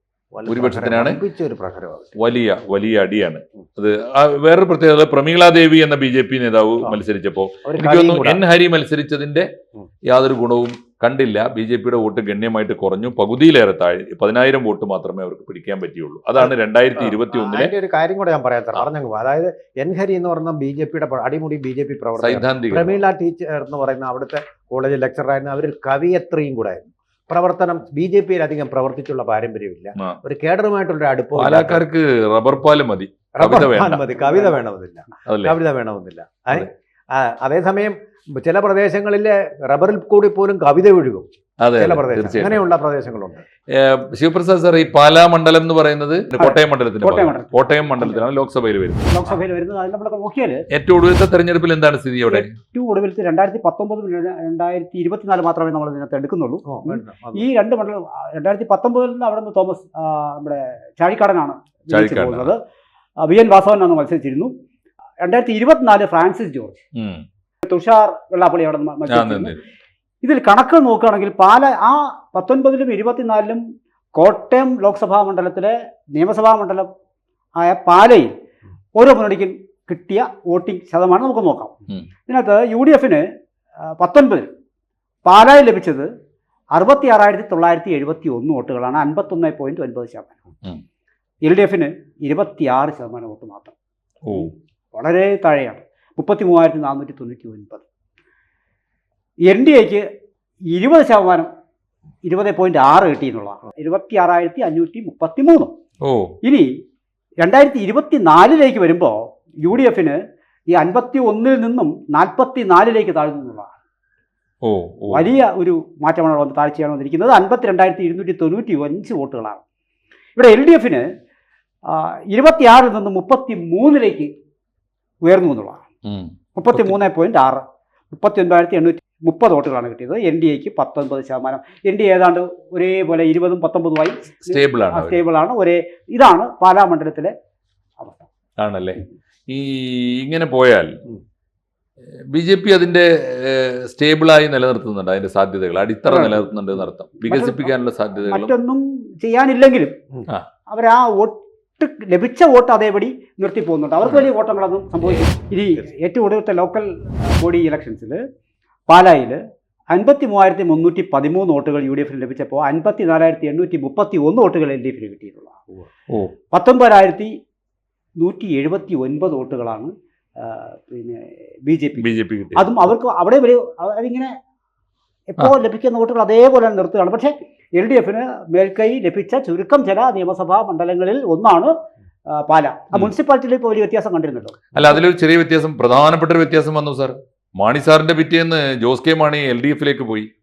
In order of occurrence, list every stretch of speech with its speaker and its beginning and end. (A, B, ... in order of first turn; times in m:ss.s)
0:00.3-0:02.1 A
0:00.5-0:01.2 B
0:02.2-0:09.5 B
0:07.6-0:08.4 A
0:10.1-0:17.7 B
0:16.4-0:31.8 A
0:22.2-0:23.0 B
0:31.4-0:34.1 B
0:33.3-0:43.4 A
0:35.3-0:35.6 B
0:41.6-0:42.6 B
0:43.7-0:49.3 B
0:46.4-0:48.2 C
0:49.1-0:50.6 C
0:50.7-0:52.5 B
0:52.3-1:02.6 C
0:56.6-0:57.4 A
1:01.9-1:02.5 B
1:03.2-1:04.5 C
1:05.2-1:06.8 C
1:06.9-1:07.2 B
1:07.6-1:09.5 C
1:09.1-1:09.6 B
1:10.2-1:13.6 C
1:14.1-1:16.9 C
1:17.6-1:18.3 C
1:18.9-1:21.7 C
1:22.3-1:23.2 C
1:24.0-1:24.5 C
1:25.2-1:26.1 C
1:26.7-1:30.3 C
1:31.4-1:33.7 C
1:34.3-1:37.8 C
1:39.4-1:40.0 C
1:40.7-1:41.5 C
1:42.2-1:45.7 C
1:46.0-1:46.3 B
1:46.4-1:46.7 C
1:47.4-1:50.2 C
1:50.7-1:53.7 C
1:54.6-1:55.3 B
1:55.1-1:59.6 C
2:00.4-2:01.1 C
2:01.8-2:04.3 C
2:05.2-2:05.8 C
2:06.0-2:06.9 B
2:06.6-2:17.3 C
2:14.4-2:15.2 B
2:18.0-2:18.3 C
2:18.6-2:20.9 B
2:22.3-2:28.5 B
2:26.1-2:26.5 C
2:27.2-2:27.7 C
2:28.3-2:30.0 C
2:30.7-2:38.2 C
2:35.0-2:35.3 B
2:38.9-2:45.6 C
2:46.5-2:47.3 C
2:48.2-2:54.4 C
2:52.0-2:52.7 B
2:55.3-3:01.7 C
3:02.3-3:04.7 C
3:04.7-3:10.3 B